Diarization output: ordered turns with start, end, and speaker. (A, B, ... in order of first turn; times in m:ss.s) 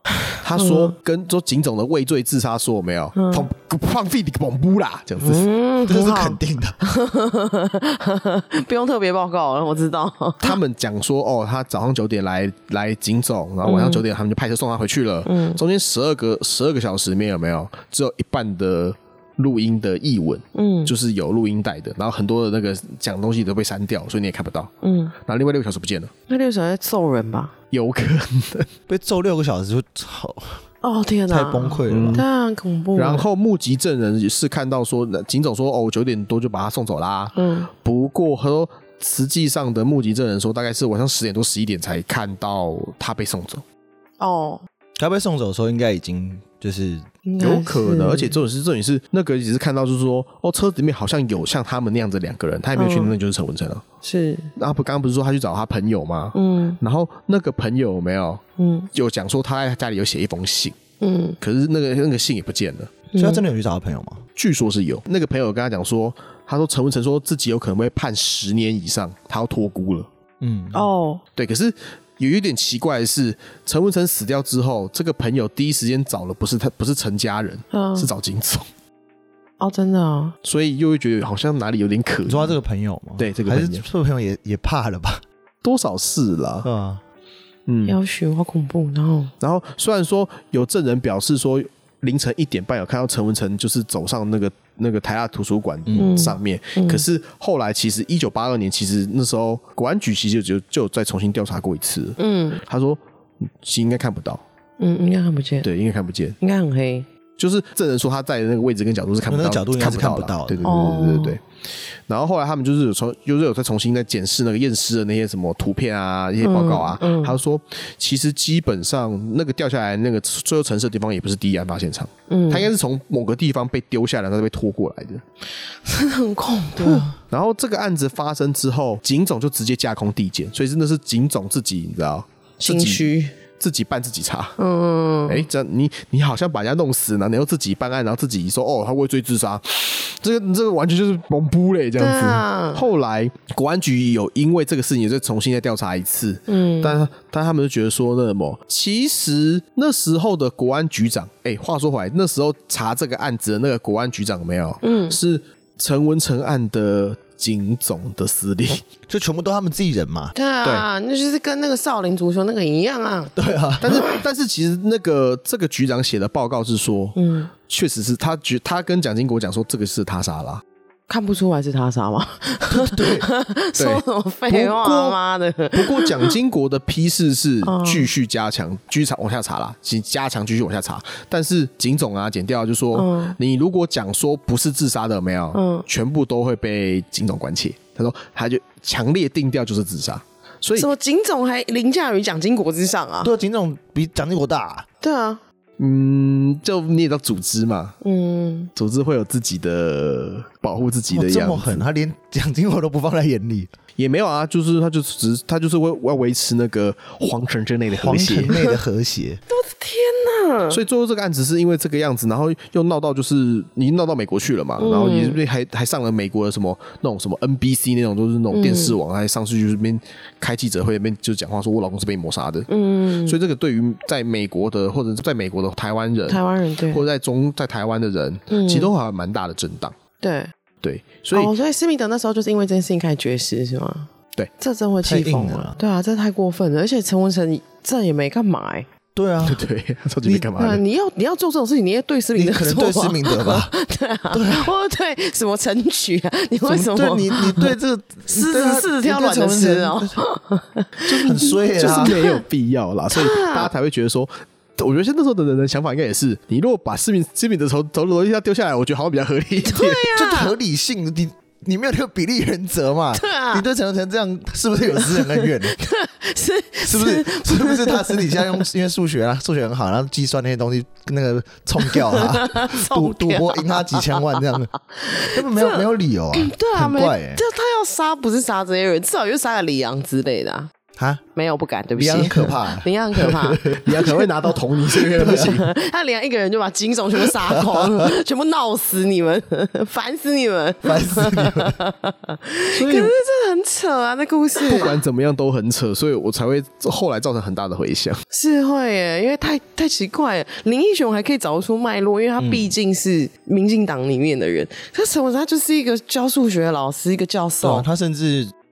0:00.3-0:05.5 A
0:00.6-0:00.9 B
0:03.2-0:03.5 B
0:05.2-0:10.6 B
0:05.9-0:06.8 C
0:10.4-0:26.1 A
0:13.6-0:14.0 B
0:15.2-0:15.6 B
0:20.5-0:20.9 B
0:24.8-0:25.1 B
0:26.3-0:27.5 B
0:27.7-0:28.7 A
0:28.9-0:30.6 C
0:30.8-0:33.2 B
0:31.3-0:32.2 C
0:31.9-0:32.2 A
0:33.0-0:43.6 A
0:37.3-0:37.7 B
0:44.2-0:44.6 B
0:45.0-0:47.0 C
0:47.2-0:48.4 B
0:47.4-0:53.8 A
0:52.8-0:53.1 B
0:54.0-0:54.5 B
0:54.6-0:58.4 A
0:56.3-0:56.8 B
0:58.6-0:58.9 B
0:58.9-1:00.8 A
1:01.0-1:01.4 B
1:01.4-1:02.9 A
1:03.1-1:03.4 B
1:03.2-1:04.2 C
1:04.4-1:10.1 A
1:10.4-1:10.9 C
1:10.7-1:11.2 B
1:11.4-1:18.7 A
1:17.7-1:18.1 B
1:19.6-1:20.4 B
1:20.4-1:22.6 A
1:22.2-1:25.2 C
1:23.2-1:23.8 A
1:25.6-1:26.7 A
1:26.6-1:27.0 C
1:27.7-1:28.0 A
1:27.8-1:29.3 B
1:29.4-1:44.4 A
1:36.0-1:37.0 B
1:42.2-1:42.6 B
1:44.8-1:45.7 B
1:45.6-1:46.4 A
1:46.4-1:47.1 B
1:47.4-1:51.4 A
1:49.3-1:50.7 C
1:50.6-1:51.4 B
1:52.1-2:05.2 A
1:56.4-1:57.3 B
2:02.3-2:02.7 B
2:05.8-2:07.1 B
2:06.8-2:07.2 C
2:07.3-2:14.6 A
2:12.6-2:13.3 B
2:14.6-2:15.4 B
2:15.3-2:38.8 A
2:22.0-2:22.8 B
2:26.5-2:27.0 B
2:34.8-2:35.2 B
2:39.1-2:40.3 C
2:40.3-2:43.3 B
2:43.4-2:44.0 C
2:43.8-2:50.6 A
2:47.2-2:47.5 B
2:51.1-2:56.3 B
2:52.7-2:53.3 C
2:53.8-2:55.2 A
2:55.7-3:10.9 A
2:57.6-2:58.1 B
3:02.9-3:03.4 B
3:05.5-3:05.8 B
3:10.7-3:13.3 B
3:13.2-3:14.8 C
3:15.0-3:15.4 B
3:15.8-3:18.0 A
3:18.0-3:18.7 B
3:18.7-3:21.8 A
3:21.1-3:23.7 C
3:24.0-3:28.6 A
3:27.9-3:29.4 C
3:29.5-3:30.8 B
3:30.7-3:49.9 A
3:34.8-3:35.4 B
3:38.5-3:39.0 B
3:42.7-3:43.4 B
3:46.3-3:47.0 B
3:48.5-3:48.9 B
3:50.2-3:50.5 B
3:50.8-3:51.5 A
3:51.3-3:58.9 B
3:55.0-3:55.8 C
3:59.1-3:59.6 C
3:59.4-4:00.8 A
4:00.2-4:00.5 C
4:00.6-4:07.8 B
4:02.3-4:03.7 C
4:04.3-4:04.7 C
4:06.6-4:10.2 C
4:08.3-4:12.4 B
4:11.1-4:20.1 A
4:11.2-4:12.1 C
4:13.1-4:13.7 B
4:19.6-4:20.5 B
4:20.1-4:25.8 C
4:23.1-4:23.6 B
4:25.0-4:28.6 B
4:26.8-4:34.7 C
4:31.8-4:40.7 B
4:35.3-4:37.4 C
4:41.0-4:41.2 C
4:41.3-4:43.8 B
4:42.0-4:44.2 C
4:43.8-4:45.6 A
4:44.8-4:45.6 C
4:45.3-4:54.9 B
4:47.3-4:48.1 C
4:50.8-4:51.8 C
4:52.7-4:53.1 A
4:54.6-4:58.2 A
4:58.3-5:07.9 B
5:02.4-5:02.7 C
5:07.6-5:08.5 C